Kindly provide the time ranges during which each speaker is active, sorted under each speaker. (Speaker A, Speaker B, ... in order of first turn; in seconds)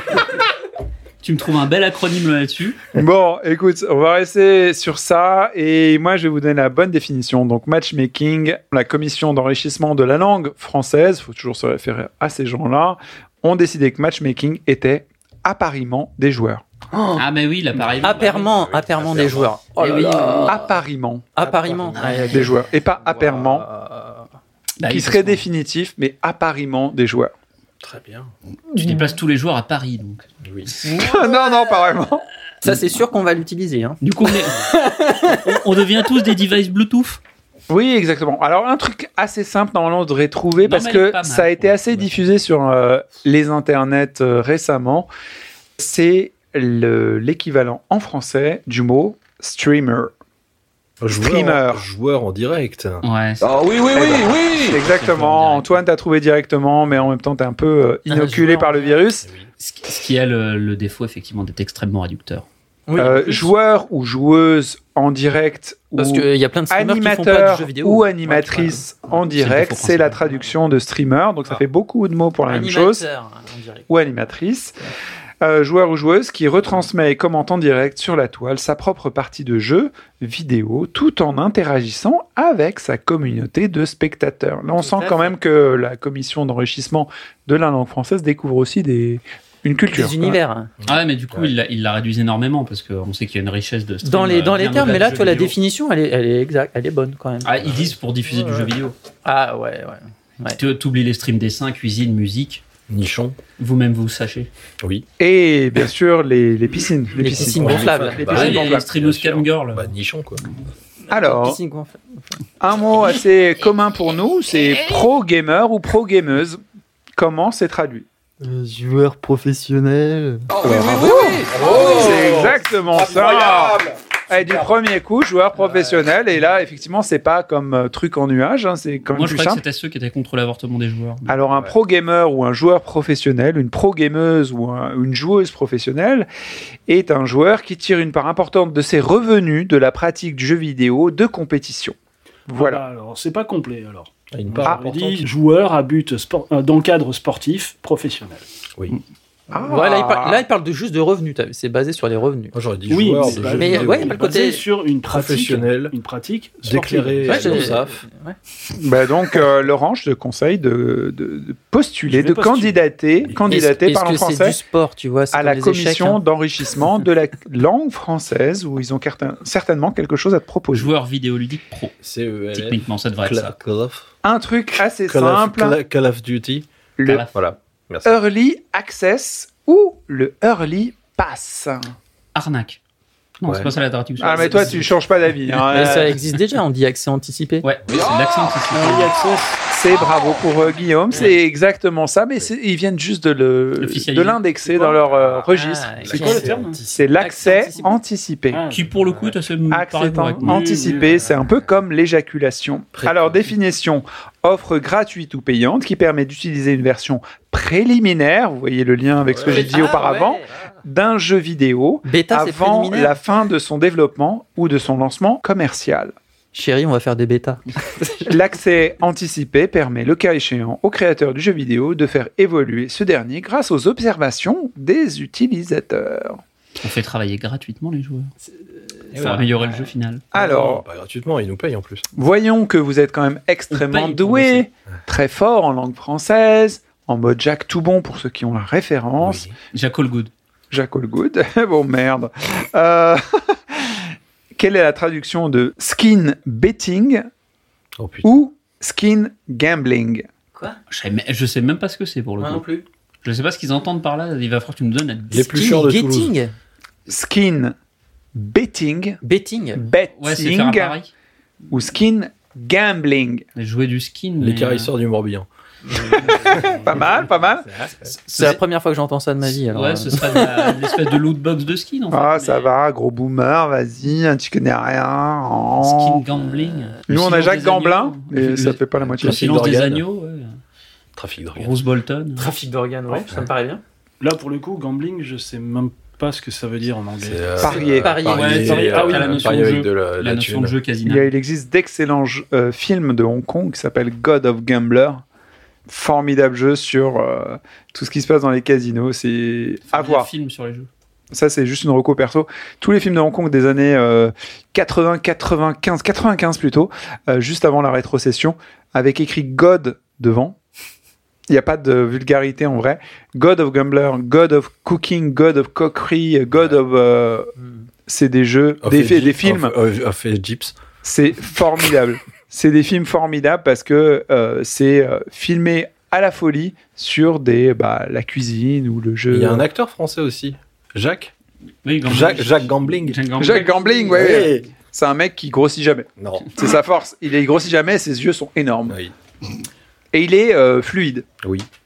Speaker A: 1.2-2.8, 17.1-18.5, 19.8-20.6, 24.8-25.4, 28.8-30.2, 34.0-34.7, 35.3-37.2, 40.6-42.0, 53.0-53.4, 54.8-55.8, 59.6-62.5, 69.3-70.4, 90.8-95.5, 97.4-99.0, 100.5-102.6, 103.6-104.5, 108.2-109.9, 129.1-131.3, 170.7-172.0, 172.5-173.6, 177.1-177.3, 182.3-182.8, 183.4-184.9, 185.7-186.0, 187.6-189.2, 193.8-194.4, 198.7-200.8, 226.8-228.3, 229.2-230.3, 233.7-234.7, 239.7-240.3, 250.9-252.7, 253.2-255.5, 260.2-261.1, 263.6-264.9, 268.3-268.6, 269.5-272.6, 275.8-280.6, 281.6-282.5, 288.2-291.3, 299.9-300.9, 331.9-334.6
Speaker B: 2.9-16.6, 20.5-21.3, 22.3-23.7, 24.8-27.3, 30.9-32.2, 37.7-45.1, 45.8-50.1, 51.1-51.9, 53.9-59.3, 63.0-73.0, 73.9-74.8, 75.4-90.4, 105.2-108.9, 111.1-111.6, 112.6-116.6, 117.2-118.1, 120.7-129.6, 131.3-136.3, 136.9-142.0, 142.5-142.8, 149.5-150.4, 158.8-164.6, 165.3-170.9, 174.2-175.8, 177.0-177.3, 178.1-181.9, 184.2-186.1, 189.7-196.2, 196.9-198.6, 199.7-216.1, 218.2-226.4, 230.3-230.8, 232.2-239.5, 240.7-244.1, 244.6-247.3, 248.2-250.3, 257.1-257.8, 258.4-259.2, 259.8-261.0, 261.7-263.4, 266.6-267.7, 272.1-276.2, 277.1-279.5, 287.6-288.1, 291.0-295.2, 295.9-300.3, 301.3-310.6, 311.5-317.5, 318.1-319.8, 321.0-329.7, 333.4-339.0, 340.1-341.3
Speaker C: 17.8-19.6, 21.4-22.6, 27.8-28.3, 30.4-30.7, 51.0-53.0, 59.2-59.5, 90.8-91.5, 102.9-103.4, 107.2-110.4, 131.5-131.8, 144.3-145.2, 152.5-154.2, 155.1-155.9, 156.6-158.0, 172.0-174.1, 175.1-176.7, 177.3-178.1, 183.4-183.7, 196.0-197.0, 202.9-203.5, 209.2-210.0, 229.1-229.5, 230.3-232.0, 239.2-239.5, 248.0-248.3, 255.3-256.3, 264.4-268.1, 279.2-280.1, 281.1-281.8, 283.1-283.5, 287.2-290.8, 318.8-320.8, 329.3-331.3, 332.0-333.2, 334.1-334.7, 336.2-336.5, 338.9-339.1, 341.4-341.7
Speaker D: 18.0-20.7, 21.4-24.3, 30.8-31.5, 32.6-35.5, 58.1-59.0, 62.9-63.5, 66.0-68.8, 72.5-73.9, 84.8-85.4, 89.9-90.7, 94.0-97.5, 99.2-100.6, 107.2-108.5, 111.1-112.3, 118.4-120.5, 121.6-121.9, 149.7-152.6, 153.2-154.6, 157.2-158.4, 163.5-166.2, 185.7-187.7, 195.5-197.9, 209.5-210.5, 212.1-213.2, 216.5-218.3, 228.5-229.9, 252.4-252.8, 255.3-256.5, 259.2-259.8, 265.9-266.7, 268.3-271.0, 276.6-276.9, 282.4-283.8, 287.7-289.1
Speaker E: 53.4-54.8, 120.5-123.9, 187.9-188.6
Speaker F: 142.5-148.4, 152.9-157.7, 162.1-162.8, 188.7-189.6, 194.6-195.1, 196.1-196.8, 198.5-199.4, 200.4-201.3, 284.2-287.6, 288.6-289.6